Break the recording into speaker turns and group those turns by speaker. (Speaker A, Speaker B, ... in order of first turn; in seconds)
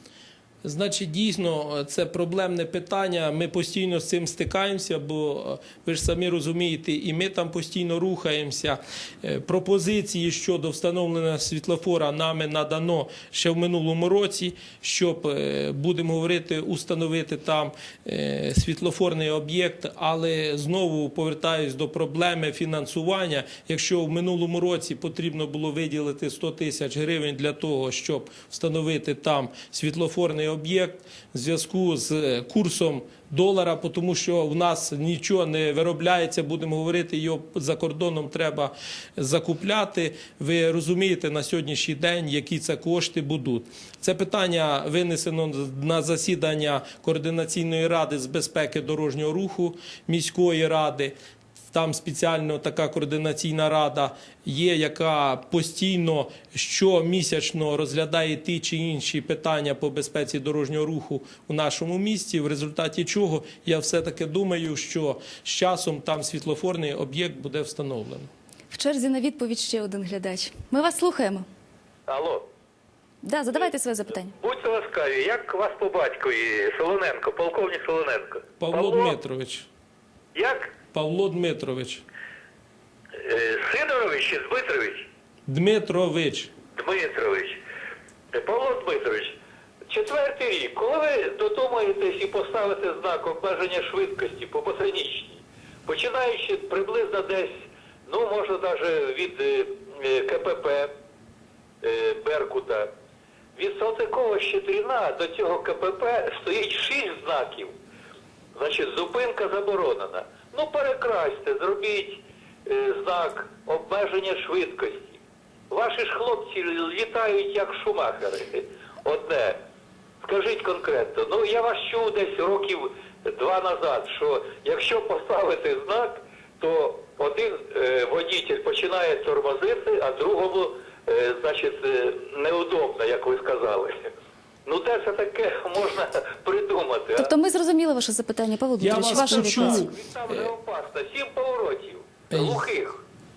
Speaker A: 0.6-51.1, 51.7-68.3, 78.6-79.7, 80.9-82.0, 85.5-86.5, 138.8-140.5, 142.3-142.6
Speaker B: 68.7-71.5, 73.2-74.3, 137.1-139.9
Speaker C: 72.1-72.5, 74.3-79.2, 80.3-80.7, 83.2-85.0, 86.8-87.6, 88.3-89.3, 89.9-100.9, 101.8-102.9, 103.6-107.8, 108.5-119.6, 120.2-134.1, 134.7-137.3, 139.1-143.0